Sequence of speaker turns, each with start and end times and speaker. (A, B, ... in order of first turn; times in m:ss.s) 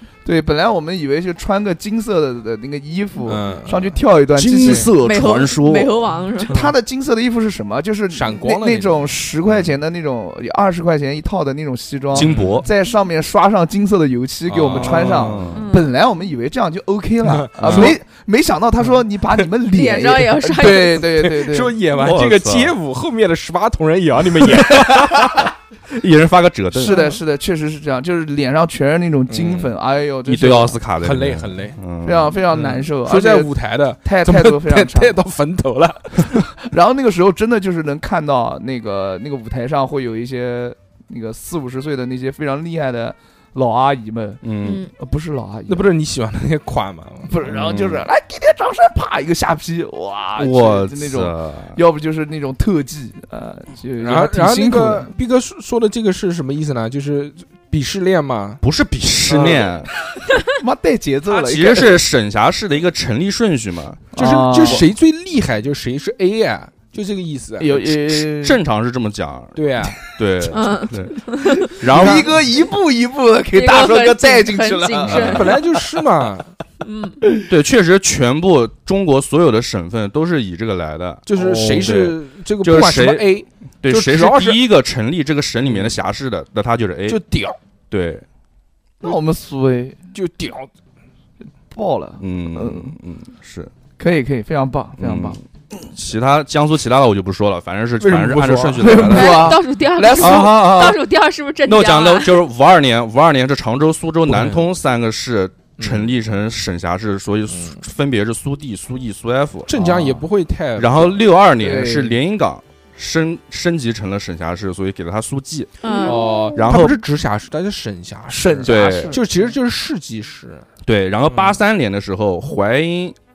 0:00.2-0:04.9 A
0:03.2-0:04.0 B
0:04.3-0:06.0 C
0:04.9-0:06.7 D
0:06.4-0:21.8 A
0:08.1-0:09.0 B
0:12.1-0:12.7 C
0:12.2-0:12.7 B
0:14.5-0:15.6 C
0:14.7-0:15.5 B
0:15.5-0:15.9 D
0:17.2-0:18.0 B
0:17.6-0:18.0 C
0:19.6-0:21.1 D
0:20.5-0:25.5 B
0:21.9-0:22.8 C
0:25.9-0:27.0 C
0:26.7-0:30.8 A
0:29.3-0:29.7 B
0:30.2-0:32.4 C
0:31.0-0:31.8 B
0:32.0-0:35.2 A
0:32.5-0:36.5 B
0:36.2-0:44.4 A
0:44.4-0:44.8 C
0:44.6-0:44.9 D
0:44.9-0:45.9 A
0:45.7-0:47.3 B
0:47.2-0:55.1 A
0:47.4-0:48.0 C
0:50.4-0:51.8 C
0:54.0-0:58.6 B
0:58.6-0:59.9 C
0:59.3-0:59.8 A
1:00.4-1:02.0 A
1:01.3-1:04.0 C
1:04.1-1:04.8 A
1:04.2-1:07.8 B
1:07.6-1:08.6 A
1:07.8-1:12.3 C
1:09.6-1:10.0 B
1:10.5-1:11.7 D
1:11.5-1:15.9 A
1:13.5-1:15.6 D
1:15.0-1:15.5 C
1:15.1-1:16.5 B
1:16.8-1:17.2 D
1:17.5-1:27.2 C
1:21.2-1:24.6 B
1:27.1-1:27.6 B
1:27.9-1:28.2 C
1:29.0-1:30.0 A
1:30.1-1:30.7 B
1:31.7-1:32.9 A
1:32.2-1:33.7 C
1:34.0-1:35.4 A
1:35.0-1:39.5 C
1:38.0-1:39.0 B
1:38.8-1:41.0 A
1:39.0-1:42.4 D
1:40.2-1:40.7 C
1:41.6-1:50.2 C
1:44.2-1:44.7 B
1:45.8-1:46.1 B
1:47.5-1:47.8 B
1:49.7-1:51.2 B
1:50.8-1:57.0 C
1:51.6-1:52.2 A
1:55.8-1:56.5 D
1:56.0-2:00.6 B
1:58.3-1:59.2 A
1:58.6-1:59.2 C
2:00.8-2:03.2 C